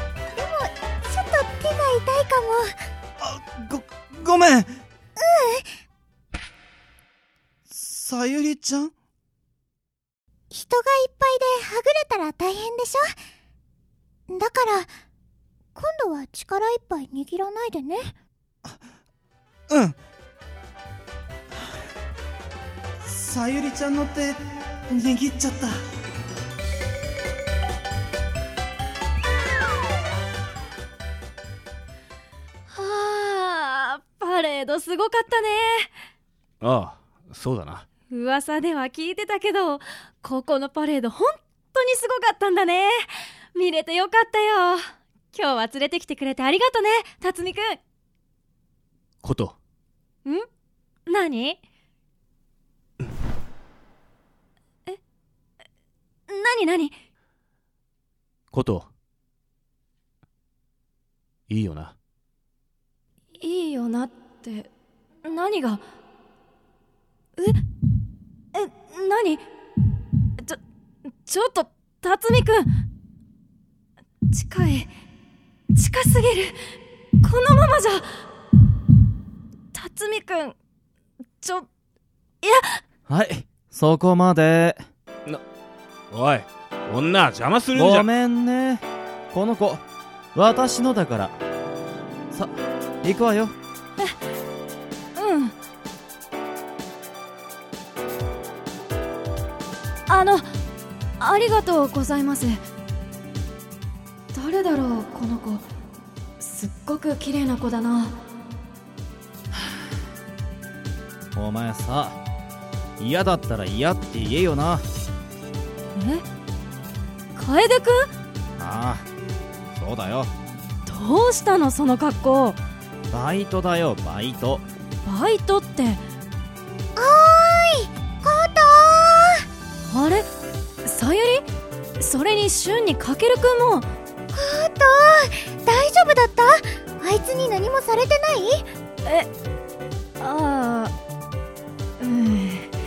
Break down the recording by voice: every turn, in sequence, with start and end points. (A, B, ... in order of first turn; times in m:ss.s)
0:00.3-0:02.8 A
0:03.2-0:04.8 B
0:05.2-0:05.7 A
0:07.7-0:08.9 B
0:10.5-0:13.1 A
0:14.3-0:14.9 A
0:15.8-0:18.2 A
0:19.7-0:20.0 B
0:23.0-0:25.8 B
0:32.7-0:35.9 C
0:36.6-0:37.8 D
0:38.1-0:47.8 C
0:49.2-0:49.6 D
0:51.1-0:51.6 C
0:56.3-0:57.0 C
0:58.5-0:58.9 D
1:01.5-1:01.9 D
1:03.4-1:04.7 C
1:05.2-1:05.8 C
1:07.4-1:07.6 C
1:08.5-1:09.4 C
1:11.2-1:12.7 C
1:14.3-1:14.9 C
1:15.7-1:16.6 C
1:17.2-1:18.2 C
1:19.7-1:20.6 C
1:21.4-1:21.7 C
1:22.4-1:22.8 C
1:23.1-1:24.8 E
1:26.1-1:28.1 D
1:27.7-1:29.8 E
1:30.4-1:31.4 E
1:32.3-1:33.6 E
1:35.2-1:35.5 C
1:40.1-1:40.5 C
1:41.2-1:42.6 C
1:44.3-1:45.6 C
1:46.4-1:48.2 C
1:51.3-1:52.2 E
1:53.0-1:54.9 E
1:56.0-1:56.2 C
1:57.4-1:58.1 C
1:58.6-1:59.1 E
1:59.7-2:00.3 E
2:00.9-2:02.6 C
2:03.1-2:04.6 E
2:05.0-2:06.0 C
2:07.0-2:09.5 A
2:09.9-2:10.3 C
2:10.8-2:11.4 C
2:12.0-2:13.9 C
2:14.3-2:18.7 A
2:20.2-2:20.9 C
2:22.0-2:22.7 C